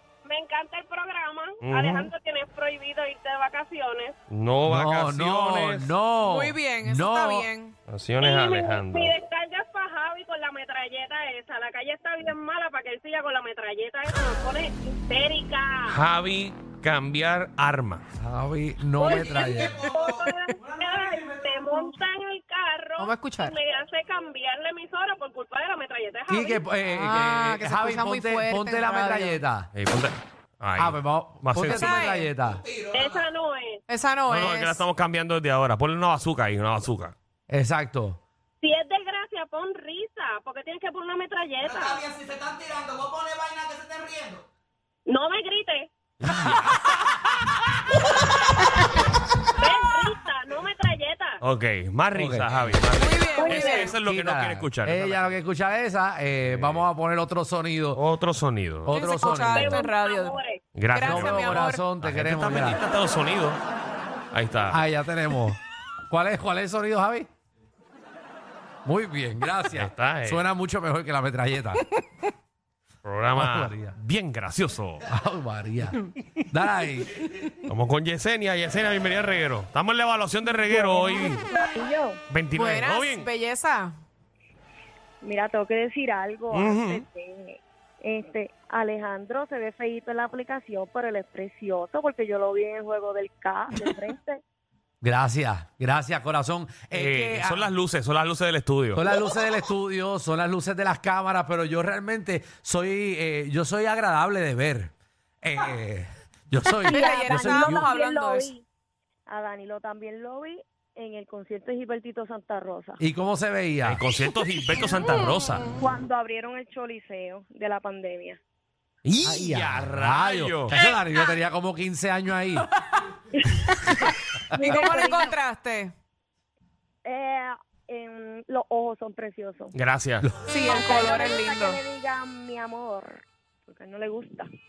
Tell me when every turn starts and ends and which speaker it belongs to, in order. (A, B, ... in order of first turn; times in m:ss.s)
0:00.2-0:04.2 A
0:01.6-0:02.1 B
0:04.3-0:05.9 B
0:04.7-0:07.5 C
0:06.2-0:07.7 D
0:07.9-0:09.1 B
0:08.2-0:16.0 A
0:15.9-0:18.0 B
0:18.2-0:19.9 C
0:19.0-0:26.6 A
0:23.0-0:23.6 D
0:26.3-0:29.7 C
0:26.8-0:29.4 D
0:29.7-0:32.0 B
0:30.8-0:32.6 C
0:31.6-0:32.3 D
0:32.9-0:33.8 A
0:33.9-0:34.8 D
0:34.3-0:37.2 B
0:37.5-0:38.2 C
0:38.6-0:42.0 A
0:42.1-0:44.4 E
0:45.1-0:45.9 A
0:46.2-0:46.7 B
0:46.3-0:46.6 C
0:49.6-0:51.4 A
0:51.4-0:55.3 B
0:52.2-0:52.8 C
0:53.0-0:53.9 D
0:53.4-0:53.9 A
0:54.0-0:58.0 C
0:56.4-0:56.8 B
0:58.0-0:58.9 B
0:58.8-0:59.8 C
0:58.9-1:00.4 D
0:59.5-1:00.6 A
1:00.8-1:03.6 B
1:00.9-1:01.8 D
1:01.0-1:02.8 C
1:04.3-1:04.8 B
1:04.7-1:07.3 C
1:08.8-1:11.8 C
1:09.8-1:10.4 B
1:13.0-1:15.1 B
1:13.4-1:14.0 C
1:15.1-1:17.2 C
1:17.7-1:21.4 B
1:20.7-1:22.2 F
1:22.3-1:23.3 B
1:22.5-1:24.0 D
1:25.2-1:34.4 F
1:26.5-1:27.0 B
1:35.0-1:37.7 C
1:36.9-1:39.0 B
1:38.9-1:47.9 C
1:46.8-1:48.6 F
1:46.9-1:48.5 D
1:49.3-1:53.0 F
1:53.0-1:54.0 C
1:53.8-1:55.7 B
1:55.8-1:58.4 F
1:59.0-2:00.7 B
1:59.2-2:02.7 C
2:04.5-2:05.4 F
2:04.6-2:05.9 D
2:07.0-2:09.7 F
2:09.7-2:10.3 B
2:10.2-2:10.5 C
2:10.5-2:11.8 D
2:10.6-2:14.5 F